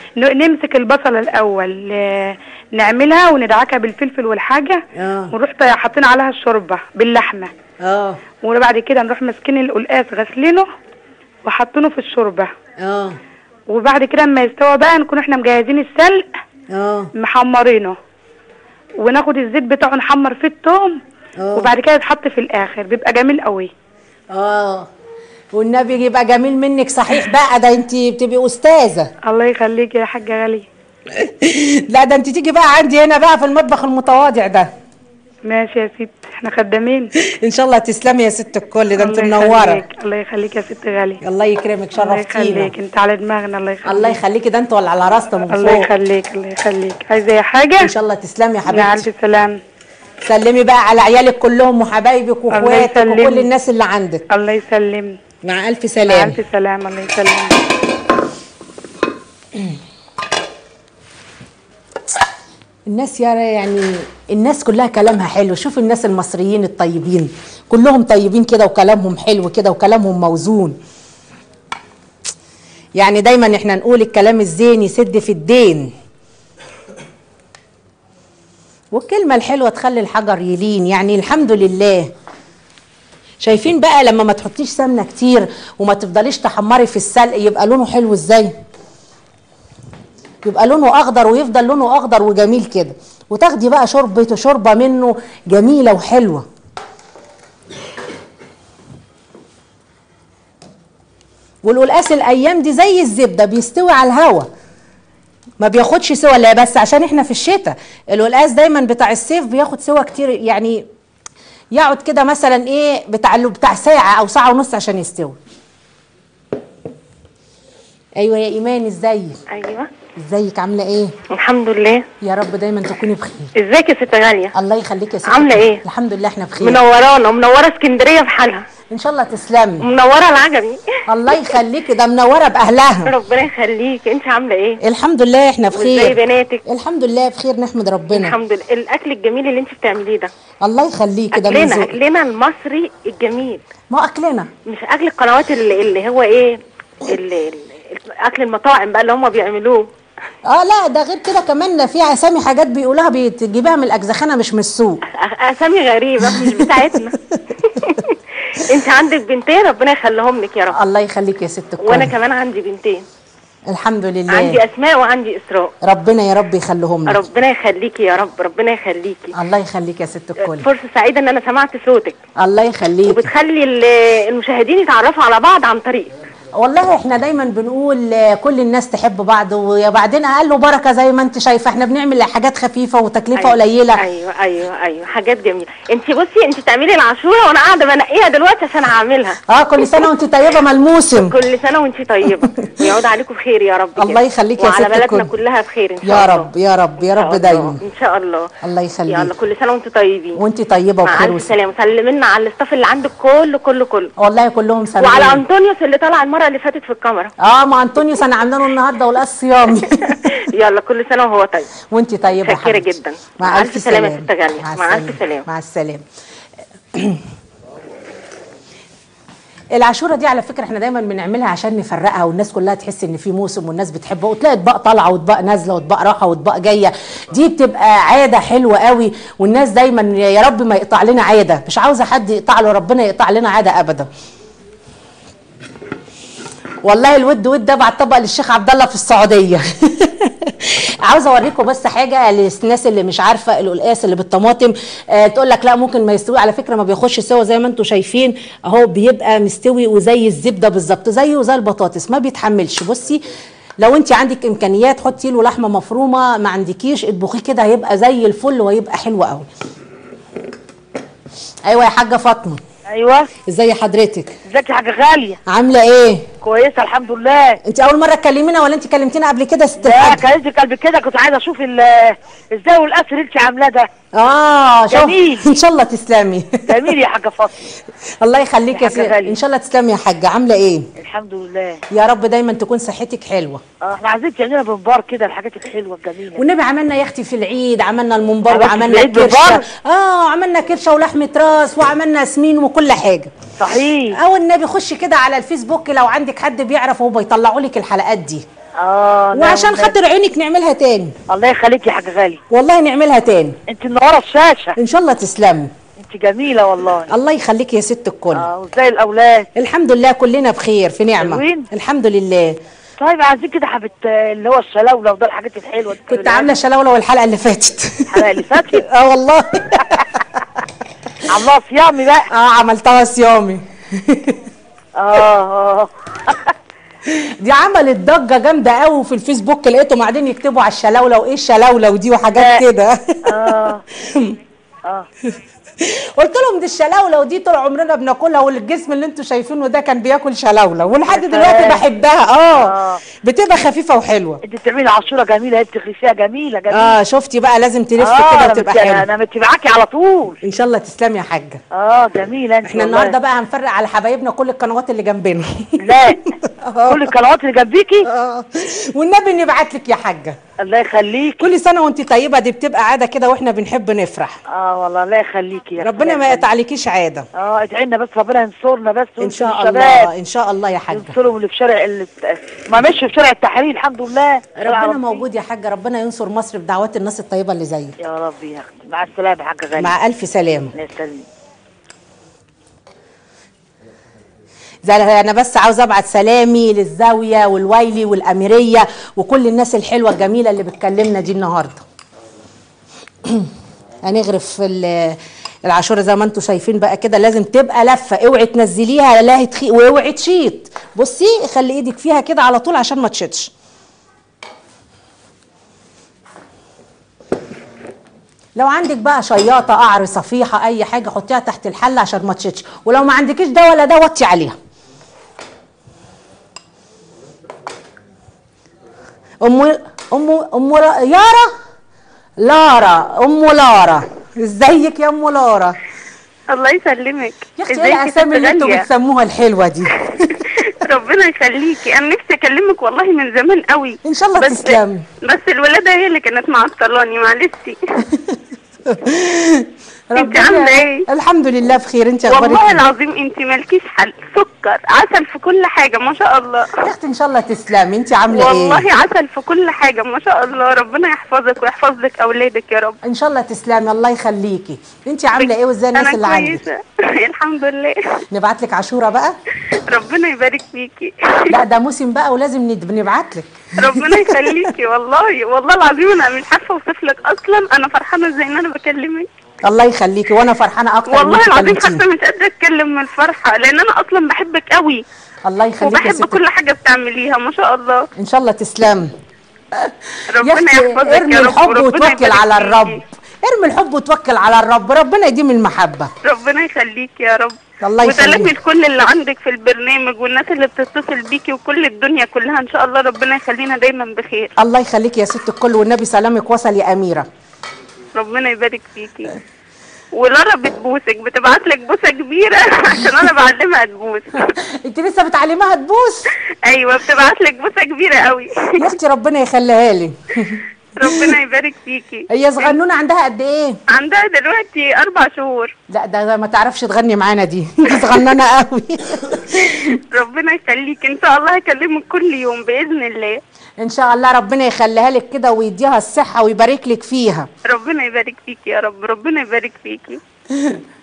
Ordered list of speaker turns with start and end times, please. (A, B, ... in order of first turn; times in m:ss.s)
0:00.2-0:07.5 A
0:05.0-0:05.3 B
0:07.8-0:08.2 B
0:08.4-0:10.6 A
0:11.4-0:12.5 A
0:12.8-0:13.2 B
0:13.7-0:16.2 A
0:16.7-0:17.1 B
0:17.2-0:18.0 A
0:19.0-0:21.0 A
0:21.4-0:21.7 B
0:21.6-0:23.7 A
0:24.3-0:24.9 B
0:25.5-0:29.1 B
0:29.3-0:30.6 A
0:31.1-0:34.7 B
0:35.5-0:37.1 A
0:37.2-0:39.8 B
0:39.0-0:41.2 A
0:41.2-0:42.7 B
0:42.0-0:44.2 A
0:43.8-0:45.9 B
0:45.5-0:47.9 A
0:47.8-0:49.0 B
0:48.7-0:49.6 A
0:50.2-0:54.2 B
0:52.5-0:53.5 A
0:54.3-0:55.2 A
0:55.4-0:56.4 B
0:56.0-0:57.6 A
1:02.9-1:10.8 B
1:13.0-1:15.9 B
1:18.9-1:22.1 B
1:23.4-1:28.5 B
1:30.4-1:36.4 B
1:41.6-1:44.5 B
1:45.6-1:50.8 B
1:51.7-1:55.4 B
1:58.2-1:59.4 B
1:59.5-1:59.9 C
2:00.2-2:01.2 B
2:01.4-2:02.0 C
2:02.2-2:03.5 B
2:03.6-2:04.5 C
2:04.6-2:06.8 B
2:05.4-2:05.8 C
2:06.7-2:08.6 C
2:08.9-2:09.9 B
2:09.9-2:10.8 C
2:11.1-2:13.2 B
2:13.1-2:14.8 C
2:14.8-2:18.4 B
2:15.8-2:16.6 C
2:18.2-2:20.3 C
2:20.6-2:22.0 B
2:21.4-2:23.6 C
2:23.9-2:24.5 B
2:24.7-2:26.6 C
2:27.1-2:29.8 C
2:30.5-2:35.0 B
2:35.2-2:37.1 C
2:36.4-2:36.6 B
2:38.7-2:40.7 C
2:40.7-2:42.2 B
2:42.0-2:43.0 C
2:43.7-2:44.6 B
2:44.4-2:45.7 C
2:45.8-2:47.2 B
2:47.1-2:49.3 C
2:49.4-2:50.7 B
2:50.6-2:52.2 C
2:52.4-2:53.3 B
2:53.2-2:56.1 C
2:56.5-3:04.0 B
3:04.0-3:09.4 C
3:09.5-3:11.4 B
3:11.3-3:14.1 C
3:14.0-3:15.3 B
3:14.7-3:16.4 C
3:16.0-3:17.8 B
3:17.4-3:18.5 C
3:18.6-3:19.3 B
3:19.2-3:20.4 C
3:20.4-3:21.5 B
3:21.2-3:24.1 C
3:24.2-3:25.4 B
3:25.1-3:27.3 C
3:27.4-3:30.2 B
3:30.6-3:31.7 C
3:31.9-3:36.0 B
3:32.5-3:33.2 C
3:33.7-3:35.4 C
3:37.0-3:37.2 B
3:39.8-3:54.1 B
3:56.8-4:13.3 B
4:13.8-4:19.5 B
4:21.7-4:22.6 B
4:22.9-4:23.3 D
4:23.5-4:24.3 B
4:24.5-4:25.4 D
4:25.5-4:26.3 B
4:26.4-4:27.6 D
4:27.6-4:30.2 B
4:29.8-4:33.9 D
4:34.2-4:36.9 B
4:34.9-4:35.4 D
4:36.7-4:37.5 D
4:38.2-4:40.9 B
4:38.7-4:39.4 D
4:41.0-4:41.8 D
4:41.9-4:43.6 B
4:43.8-4:46.4 D
4:46.4-4:53.3 B
4:48.5-4:49.6 D
4:53.6-4:54.2 D
4:54.1-4:58.4 B
4:58.8-5:00.0 D
4:59.3-5:01.1 B
5:01.3-5:02.4 D
5:02.5-5:03.6 B
5:03.7-5:04.7 D
5:04.8-5:05.7 B
5:06.0-5:07.1 D
5:07.1-5:08.5 B
5:08.4-5:09.5 D
5:09.6-5:12.6 B
5:11.2-5:11.6 D
5:13.0-5:16.5 D
5:16.1-5:19.9 B
5:18.2-5:18.8 D
5:21.4-5:22.2 D
5:22.3-5:24.4 B
5:25.0-5:25.9 D
5:27.1-5:34.4 B
5:32.4-5:32.6 D
5:33.3-5:33.8 D
5:35.8-5:44.4 B
5:41.1-5:41.8 D
5:42.7-5:43.0 D
5:44.5-5:47.0 D
5:46.7-5:49.1 B
5:48.0-5:50.4 D
5:50.4-5:51.6 B
5:51.8-5:53.1 D
5:52.6-5:56.0 B
5:55.8-5:56.2 D
5:56.6-5:57.1 B
5:56.9-5:58.1 D
5:58.0-6:00.4 B
6:00.7-6:01.5 D
6:01.4-6:04.4 B
6:04.6-6:06.5 D
6:05.8-6:07.3 B
6:07.4-6:10.1 D
6:09.2-6:11.2 B
6:10.9-6:15.2 D
6:14.6-6:17.9 B
6:18.1-6:19.9 D
6:19.8-6:20.7 B
6:20.8-6:21.2 D
6:24.8-6:31.8 B
6:33.3-6:33.5 B
6:34.0-6:43.5 B
6:48.6-6:54.6 B
6:59.4-7:01.5 B
7:02.4-7:05.8 B
7:06.5-7:08.8 E
7:07.6-7:10.0 B
7:10.2-7:17.8 E
7:14.0-7:15.0 B
7:18.9-7:22.8 B
7:20.2-7:21.0 E
7:22.3-7:26.7 E
7:26.8-7:28.8 B
7:28.3-7:33.0 E
7:33.0-7:36.6 B
7:35.4-7:38.0 E
7:38.3-7:39.3 B
7:39.9-7:41.6 E
7:41.5-7:44.5 B
7:43.8-7:49.3 E
7:49.6-7:52.0 B
7:51.1-7:55.0 E
7:55.5-7:56.4 B
7:55.8-7:58.0 E
7:58.2-7:59.1 B
7:59.8-8:06.1 B
8:00.4-8:03.0 E
8:06.2-8:14.5 E
8:07.8-8:08.5 B
8:14.6-8:17.3 B
8:18.2-8:19.3 E
8:20.1-8:24.5 E
8:24.7-8:26.3 B
8:26.6-8:28.7 E
8:28.8-8:31.1 B
8:31.0-8:32.7 E
8:32.3-8:33.8 B
8:33.9-8:35.7 E
8:35.9-8:39.9 B
8:40.0-8:43.4 E
8:43.8-8:47.5 B
8:47.7-8:50.2 E
8:50.6-8:50.8 B